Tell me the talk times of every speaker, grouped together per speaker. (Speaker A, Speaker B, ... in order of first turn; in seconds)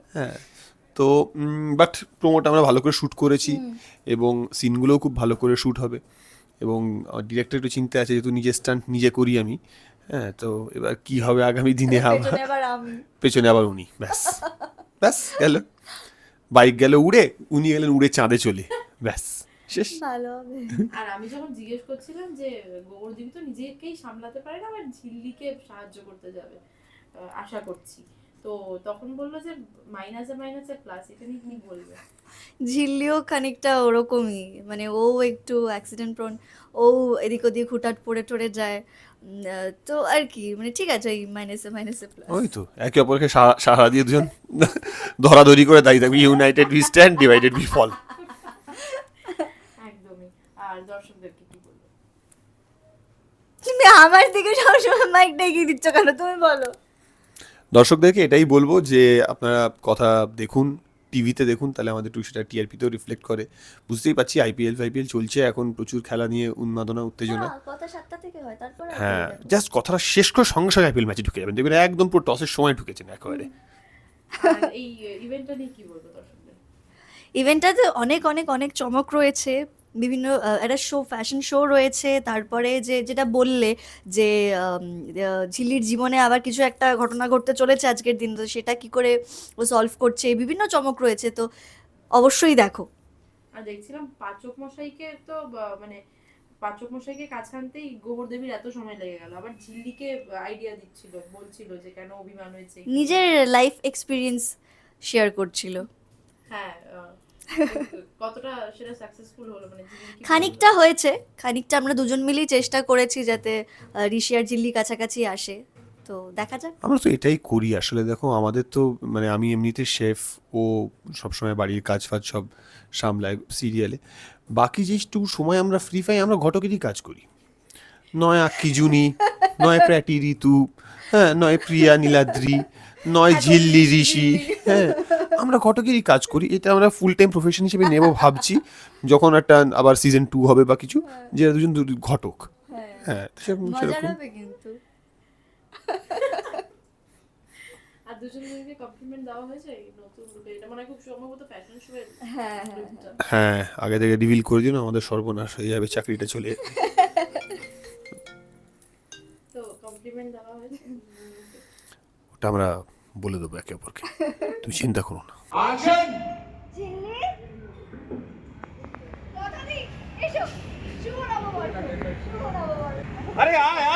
Speaker A: 0.1-6.0, 6.6-9.6, 10.1-12.4, 13.2-14.4, 15.0-15.7, 16.6-20.0, 42.3-48.0, 57.7-67.5, 68.9-73.5, 116.8-124.0, 124.6-127.3, 128.2-142.5, 143.0-144.2, 153.2-156.8, 162.4-164.1, 164.6-165.4
Speaker B: 3.5-3.8, 11.9-13.1, 14.2-14.7, 20.0-20.9, 32.7-42.4, 53.6-56.7, 67.3-69.6, 77.4-91.5, 92.2-92.9, 102.9-104.5, 105.1-105.9, 110.2-113.6, 114.1-116.8, 129.2-129.9, 131.7-132.4, 133.3-135.4, 137.9-138.4, 141.1-141.3, 142.7-143.1, 143.7-144.8, 145.8-146.6, 152.3-153.0, 156.6-157.5, 164.1-164.6, 166.8-167.3, 169.4-170.5, 171.0-172.7
Speaker C: 20.9-26.6, 27.2-32.0, 48.2-48.9, 49.8-51.9, 74.4-76.6, 93.6-96.0, 96.6-103.4, 106.5-110.7, 146.1-146.6, 148.1-153.2, 159.5-161.6